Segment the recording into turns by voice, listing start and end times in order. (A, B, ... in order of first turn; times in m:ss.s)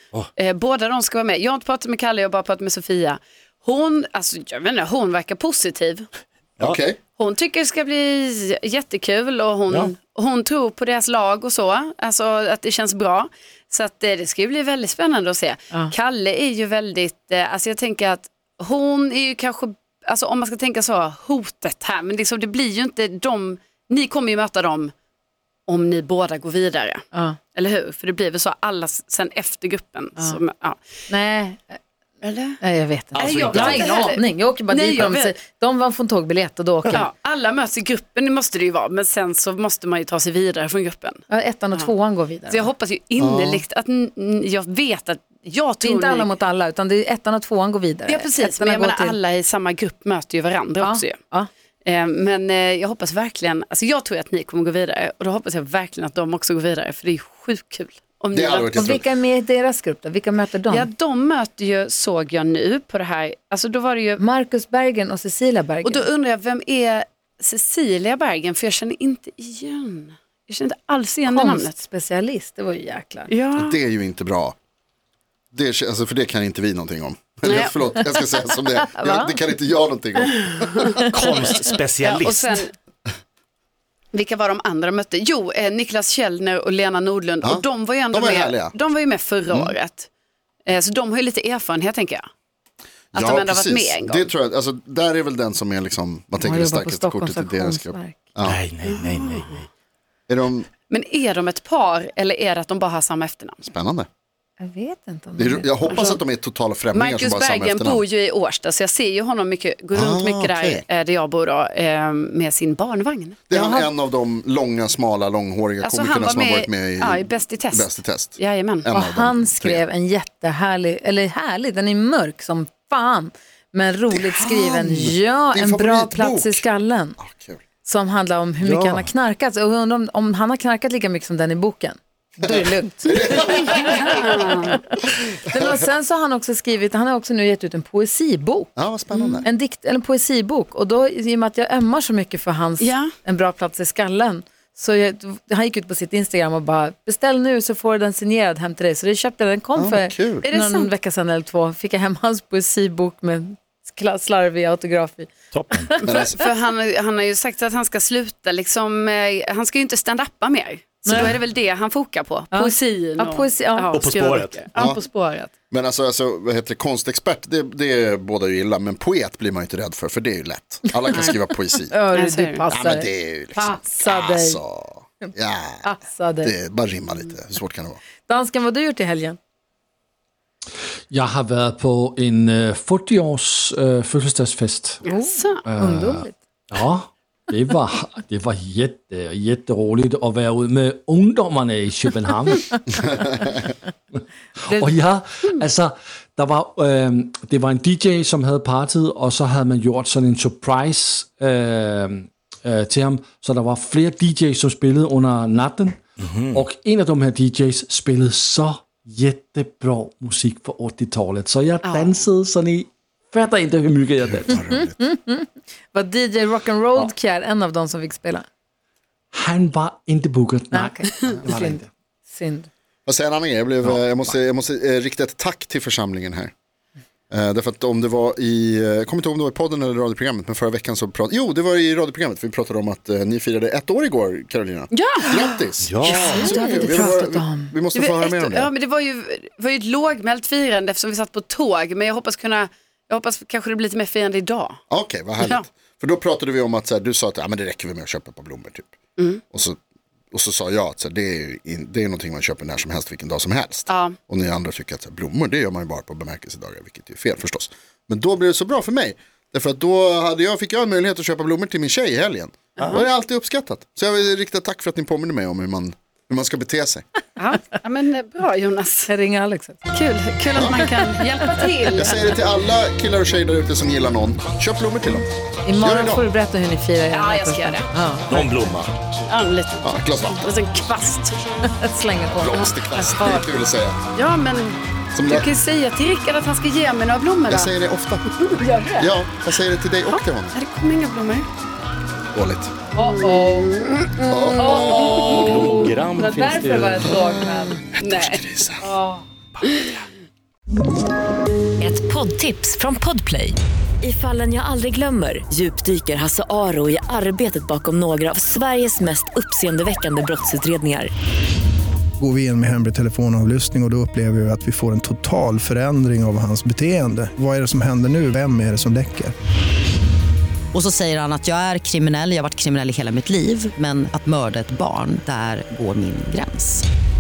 0:00.4-0:06.1 A
0:06.6-0:07.0 B
0:07.2-0:24.9 A
0:25.7-0:30.8 A
0:27.1-0:27.4 C
0:31.1-0:31.8 C
0:32.2-0:32.6 A
0:32.6-0:37.0 C
0:33.2-0:34.1 D
0:33.2-0:35.3 A
0:36.9-0:41.2 A
0:41.3-0:42.7 C
0:42.5-0:46.3 A
0:43.2-0:43.6 B
0:45.8-0:49.2 C
0:48.1-0:51.2 A
0:50.8-0:51.5 C
0:51.8-0:58.9 A
0:58.3-0:59.0 B
0:58.7-1:00.9 C
1:00.7-1:04.2 A
1:04.2-1:06.1 C
1:05.8-1:11.8 A
1:11.3-1:13.3 C
1:13.3-1:13.8 A
1:13.6-1:14.6 B
1:15.5-1:21.0 B
1:17.4-1:17.8 A
1:18.9-1:19.3 C
1:21.1-1:22.6 D
1:22.0-1:22.7 A
1:24.1-1:30.1 A
1:27.4-1:28.8 B
1:30.7-1:32.3 A
1:33.1-1:38.6 B
1:33.2-1:34.3 A
1:36.4-1:38.2 C
1:38.4-1:39.6 D
1:38.8-1:39.5 A
1:40.3-1:40.7 B
1:40.9-1:43.6 A
1:43.6-1:44.1 B
1:44.6-1:46.1 C
1:45.4-1:48.0 B
1:45.9-1:46.2 A
1:46.9-1:53.4 A
1:49.9-1:50.8 B
1:53.5-1:59.8 B
1:53.5-1:53.9 C
1:55.8-1:58.9 A
1:58.9-2:07.2 C
2:04.1-2:06.7 B
2:07.2-2:07.6 B
2:07.8-2:18.7 C
2:08.6-2:09.0 B
2:12.4-2:14.2 B
2:14.1-2:14.7 A
2:15.5-2:15.8 B
2:18.8-2:19.5 B
2:19.1-2:19.5 A
2:19.4-2:36.3 C
2:22.8-2:23.1 A
2:29.8-2:30.4 B
2:30.4-2:30.9 A
2:35.5-2:36.0 D
2:36.0-2:36.4 B
2:36.4-2:45.5 A
2:41.0-2:41.3 C
2:42.5-2:44.0 C
2:43.9-2:44.6 D
2:45.7-2:51.9 B
2:51.0-2:51.3 C
2:51.9-2:54.6 C
2:52.1-2:52.6 A
2:52.7-2:55.9 B
2:55.8-2:56.5 C
2:56.4-2:58.0 B
2:58.3-2:59.4 C
3:01.1-3:05.0 E
3:05.0-3:05.6 A
3:05.1-3:06.4 C
3:05.6-3:13.5 E
3:14.6-3:14.9 C
3:14.6-3:34.6 E
3:26.2-3:26.6 D
3:31.8-3:32.2 A
3:34.4-3:35.0 B
3:34.7-3:38.4 C
3:39.3-3:41.8 E
3:40.7-3:42.7 C
3:43.1-3:46.5 B
3:47.3-3:58.7 B
3:54.9-3:55.6 A
3:55.8-3:56.2 D
3:56.0-3:57.7 C
3:56.1-3:57.0 A
3:58.0-4:04.8 A
4:04.9-4:08.9 B
4:05.4-4:05.7 A
4:09.5-4:09.8 B
4:10.3-4:27.0 B
4:13.9-4:14.2 A
4:22.8-4:23.1 A
4:27.4-4:29.1 A
4:29.1-4:29.9 C
4:29.9-4:32.4 A
4:31.9-4:36.3 B
4:35.6-4:38.5 C
4:37.1-4:37.9 A
4:38.3-4:38.9 D
4:39.3-4:41.4 A
4:39.8-4:40.4 B
4:41.6-4:42.7 C
4:42.4-4:44.0 B
4:42.5-4:43.5 A
4:44.2-4:47.8 A
4:45.2-4:45.5 B
4:47.5-4:48.3 B
4:48.3-4:49.1 A
4:49.0-4:50.6 B
4:50.0-4:51.5 A
4:52.3-4:52.7 B
4:53.0-4:53.7 C
4:53.0-4:55.5 A
4:54.3-4:55.7 B
4:54.6-4:57.8 C
4:55.3-4:57.2 D
4:57.9-4:58.9 B
4:58.0-4:58.4 A
4:58.8-4:59.2 C
4:59.6-4:59.9 B
5:01.8-5:11.1 F
5:12.2-5:19.4 G
5:20.7-5:26.8 H